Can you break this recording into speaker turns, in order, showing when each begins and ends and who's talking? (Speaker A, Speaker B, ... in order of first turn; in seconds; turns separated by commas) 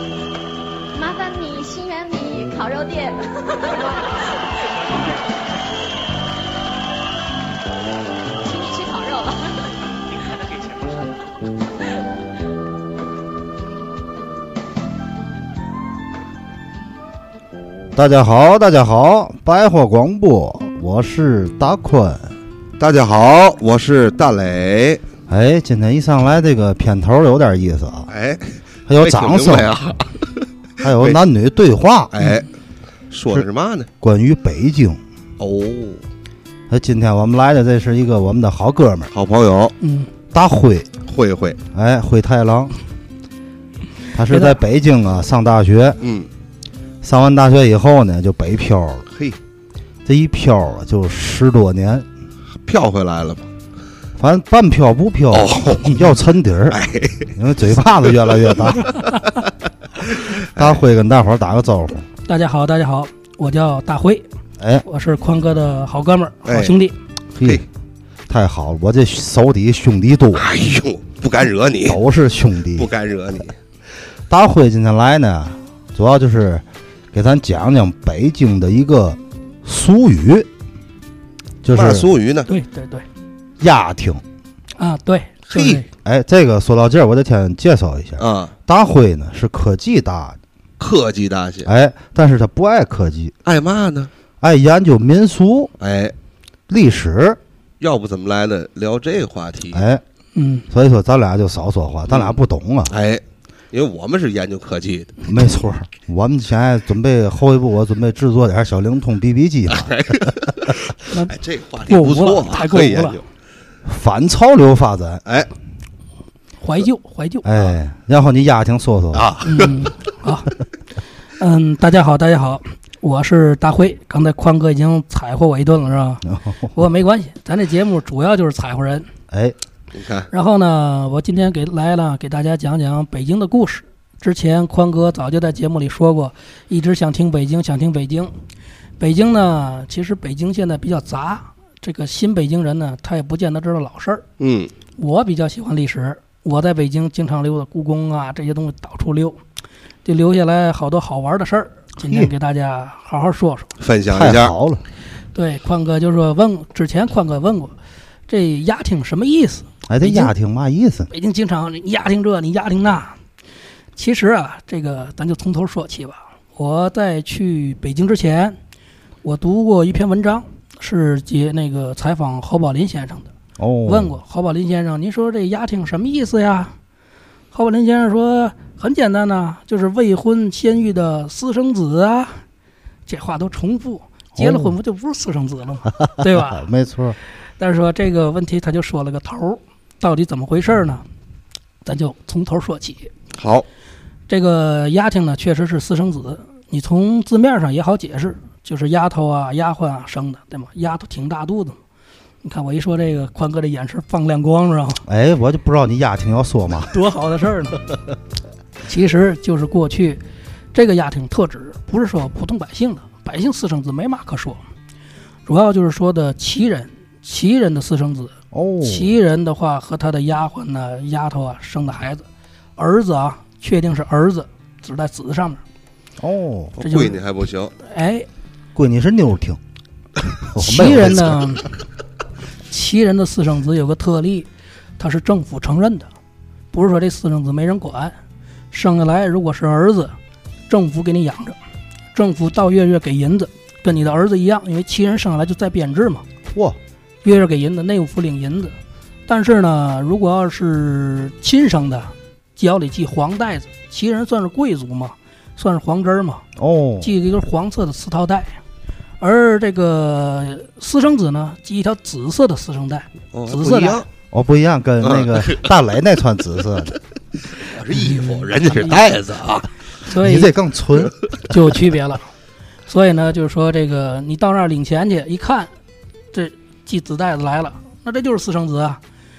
Speaker A: 0.9-5.2, Speaker B: 4.6-5.9, Speaker A: 8.4-9.8, Speaker B: 10.1-11.5, Speaker C: 17.9-22.3, Speaker D: 22.8-25.0, Speaker C: 25.3-28.1, Speaker D: 28.1-31.2, Speaker C: 28.9-29.7, Speaker C: 30.8-32.3, Speaker D: 32.1-32.5, Speaker D: 33.1-33.9, Speaker C: 34.0-35.0, Speaker D: 35.4-36.0, Speaker C: 36.7-39.1, Speaker D: 39.1-39.7, Speaker E: 39.8-40.1, Speaker C: 40.3-40.9, Speaker D: 41.0-41.6, Speaker C: 41.7-42.7, Speaker C: 44.1-46.0, Speaker E: 44.3-44.6, Speaker D: 46.0-46.3, Speaker C: 47.0-49.0, Speaker D: 49.1-49.4, Speaker C: 50.0-52.0, Speaker D: 52.6-53.5, Speaker C: 54.2-56.8, Speaker D: 55.3-56.1, Speaker D: 56.7-57.3, Speaker C: 57.3-58.9, Speaker D: 58.0-59.5, Speaker D: 60.1-60.8, Speaker C: 60.5-62.0, Speaker E: 62.2-64.2, Speaker C: 64.6-64.8, Speaker E: 64.8-67.0, Speaker D: 66.4-66.7, Speaker C: 67.4-67.6, Speaker C: 68.3-70.5, Speaker D: 70.3-72.0, Speaker C: 71.8-72.9, Speaker D: 72.7-73.6, Speaker C: 74.3-80.5, Speaker C: 81.6-82.1, Speaker D: 81.7-82.5, Speaker E: 82.5-83.0, Speaker C: 83.6-84.2, Speaker E: 84.8-85.8, Speaker C: 85.5-90.4, Speaker D: 88.2-88.5, Speaker D: 90.8-91.7, Speaker C: 91.6-93.3, Speaker D: 93.4-94.1, Speaker C: 94.4-95.7, Speaker D: 95.8-96.1, Speaker C: 96.7-97.4, Speaker D: 97.8-99.8, Speaker C: 99.7-100.0, Speaker E: 100.3-100.7, Speaker C: 100.7-102.9, Speaker D: 102.1-105.2, Speaker C: 105.2-110.3, Speaker D: 109.7-113.2, Speaker E: 111.1-113.2, Speaker C: 113.8-115.2, Speaker E: 116.6-117.7, Speaker C: 117.4-119.3, Speaker D: 119.1-119.9, Speaker E: 119.4-120.5, Speaker E: 121.4-129.1, Speaker C: 126.2-126.7, Speaker C: 129.3-129.6, Speaker D: 129.9-130.3, Speaker E: 130.3-138.3, Speaker E: 139.0-144.2, Speaker D: 144.4-144.7, Speaker E: 145.0-149.4, Speaker E: 150.0-153.7, Speaker C: 152.0-152.3, Speaker D: 153.8-154.5, Speaker C: 154.1-154.8, Speaker E: 155.3-157.7, Speaker E: 158.3-160.3, Speaker C: 159.9-161.1, Speaker E: 161.1-163.2, Speaker E: 163.9-168.6, Speaker E: 169.2-173.3, Speaker C: 173.6-174.1, Speaker E: 173.8-176.7, Speaker E: 177.5-182.4, Speaker E: 183.1-186.7, Speaker C: 184.3-184.7, Speaker C: 185.9-187.2, Speaker E: 187.6-191.0, Speaker E: 191.8-193.1, Speaker D: 193.3-193.7, Speaker E: 194.3-201.8, Speaker E: 202.4-205.0, Speaker C: 205.0-206.9, Speaker E: 206.9-207.8, Speaker E: 208.8-210.2, Speaker E: 210.7-214.6, Speaker E: 215.4-222.2, Speaker C: 218.5-219.1, Speaker E: 222.8-225.6, Speaker C: 226.2-226.8, Speaker D: 226.8-227.7, Speaker E: 226.8-227.2, Speaker E: 227.8-228.3, Speaker C: 228.7-229.6, Speaker C: 230.4-231.5, Speaker E: 230.6-231.7, Speaker E: 232.7-236.1, Speaker E: 236.7-238.2, Speaker E: 238.7-240.1, Speaker E: 240.7-241.6, Speaker E: 242.1-246.2, Speaker C: 246.5-246.8, Speaker E: 247.2-248.7, Speaker E: 249.3-256.4, Speaker C: 256.6-257.1, Speaker E: 257.0-258.6, Speaker E: 259.2-264.0, Speaker D: 263.3-264.1, Speaker C: 264.3-266.9, Speaker D: 265.0-265.7, Speaker D: 267.6-269.7, Speaker E: 267.9-269.0, Speaker E: 270.0-270.5, Speaker C: 270.1-271.1, Speaker E: 271.5-272.2, Speaker E: 272.9-275.7, Speaker E: 276.3-279.0